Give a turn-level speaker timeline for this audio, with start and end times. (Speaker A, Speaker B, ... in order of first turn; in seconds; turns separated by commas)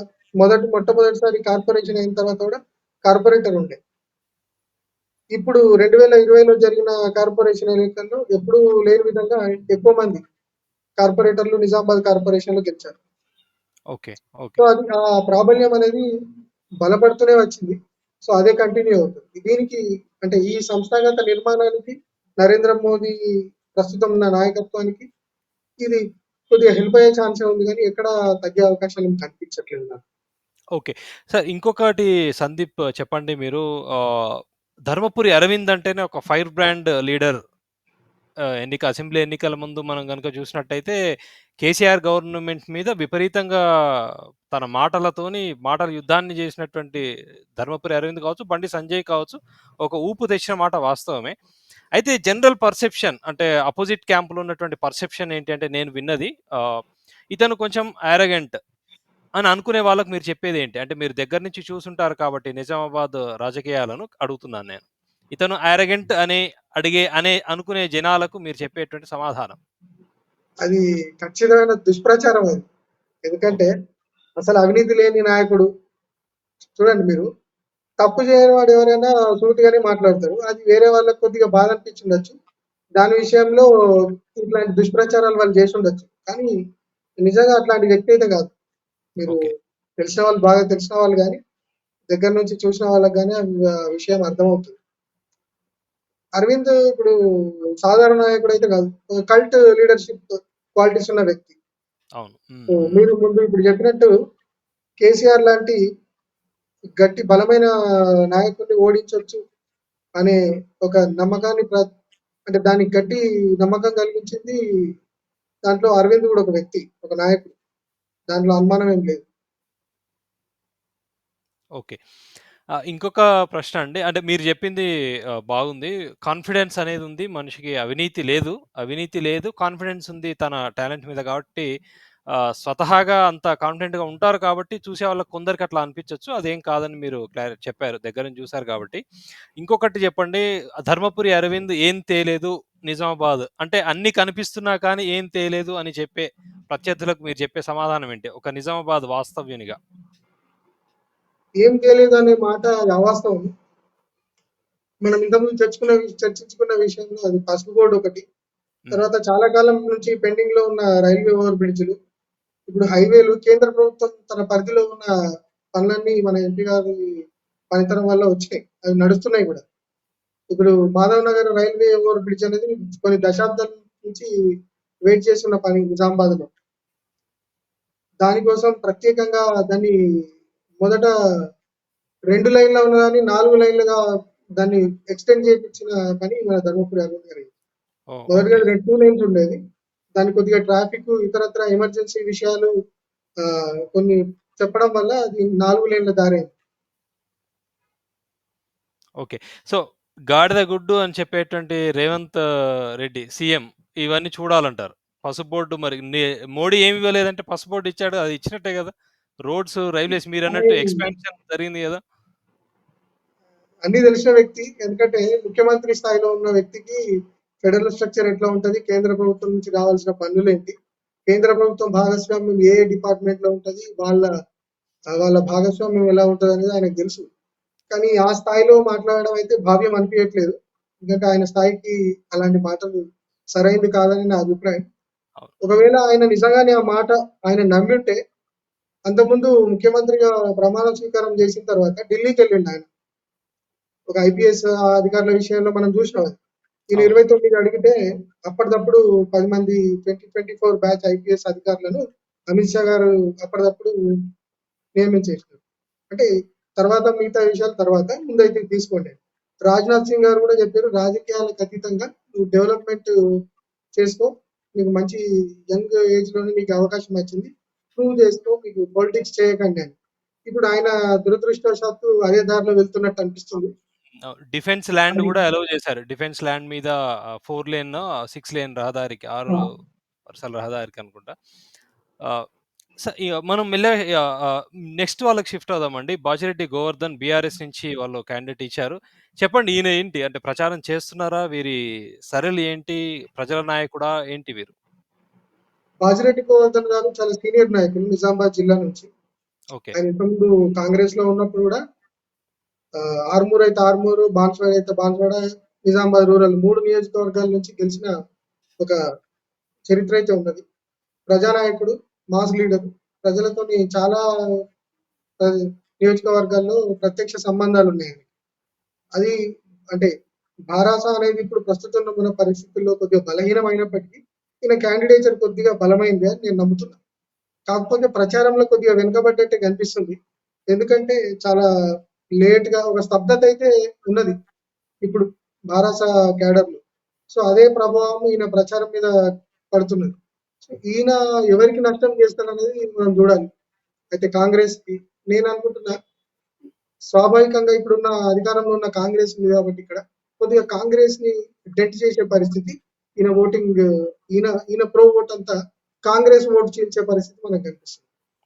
Speaker A: 0.4-3.8, Speaker A: 5.3-10.2, Speaker A: 11.0-13.0, Speaker B: 13.9-14.6, Speaker A: 14.6-16.0, Speaker A: 16.8-17.8, Speaker A: 18.3-23.1, Speaker A: 23.7-25.1, Speaker A: 25.8-30.0, Speaker B: 30.8-34.3, Speaker B: 34.9-37.4, Speaker B: 38.6-41.0, Speaker B: 41.6-43.6, Speaker B: 44.5-47.0, Speaker B: 47.6-51.3, Speaker B: 52.0-56.8, Speaker B: 57.3-58.5, Speaker B: 59.4-64.8, Speaker B: 65.3-69.6, Speaker A: 70.6-72.7, Speaker A: 73.2-73.7, Speaker A: 74.4-75.7, Speaker A: 76.8-77.3, Speaker A: 78.0-82.3, Speaker A: 83.0-83.7, Speaker A: 84.4-86.5, Speaker A: 87.2-88.5, Speaker A: 89.2-91.4, Speaker A: 92.1-94.8, Speaker A: 96.4-97.1, Speaker A: 97.8-101.5, Speaker B: 102.2-103.0, Speaker A: 102.8-104.1, Speaker A: 105.0-105.8, Speaker A: 107.0-107.7, Speaker A: 108.3-109.4, Speaker A: 110.2-111.9, Speaker A: 112.5-114.6, Speaker A: 115.7-117.5, Speaker A: 118.3-119.2, Speaker B: 122.9-124.9, Speaker B: 125.5-131.7, Speaker B: 132.3-139.0, Speaker B: 139.6-149.8, Speaker A: 151.6-153.5, Speaker A: 155.0-158.2, Speaker A: 158.9-161.9, Speaker A: 162.7-165.1, Speaker A: 165.8-167.0, Speaker A: 167.7-169.6, Speaker A: 170.5-174.3, Speaker A: 175.1-176.5, Speaker A: 178.2-179.9, Speaker A: 180.8-181.1, Speaker A: 182.3-184.0, Speaker A: 184.6-187.5, Speaker B: 188.1-188.7, Speaker A: 188.3-189.6, Speaker A: 190.2-192.7, Speaker A: 193.4-196.5, Speaker B: 199.2-202.4, Speaker B: 203.0-208.9, Speaker B: 209.5-212.0, Speaker A: 210.5-211.0, Speaker A: 213.8-217.0, Speaker A: 217.6-220.7, Speaker A: 221.3-224.2, Speaker A: 225.1-227.3, Speaker A: 227.9-230.6, Speaker A: 231.1-232.9, Speaker A: 233.5-234.8, Speaker A: 235.6-238.2, Speaker A: 239.1-242.8, Speaker A: 244.1-246.4, Speaker A: 246.9-247.9, Speaker A: 248.5-253.9, Speaker A: 255.0-255.6, Speaker A: 256.8-263.1, Speaker A: 264.0-265.2, Speaker A: 265.7-269.9, Speaker A: 270.5-273.7, Speaker B: 274.3-276.9, Speaker B: 277.4-279.7, Speaker B: 280.3-281.3, Speaker B: 283.0-291.8, Speaker B: 292.3-294.7, Speaker A: 296.0-299.1, Speaker A: 299.9-301.8, Speaker A: 303.3-308.1, Speaker A: 309.9-310.6, Speaker A: 311.3-314.2, Speaker A: 315.4-318.2, Speaker A: 320.7-327.0, Speaker A: 327.7-330.2, Speaker A: 330.7-331.6, Speaker A: 332.4-334.3, Speaker A: 335.0-339.1, Speaker A: 339.7-343.4, Speaker A: 344.1-345.9, Speaker A: 347.1-353.8, Speaker A: 354.3-355.5, Speaker A: 356.1-358.0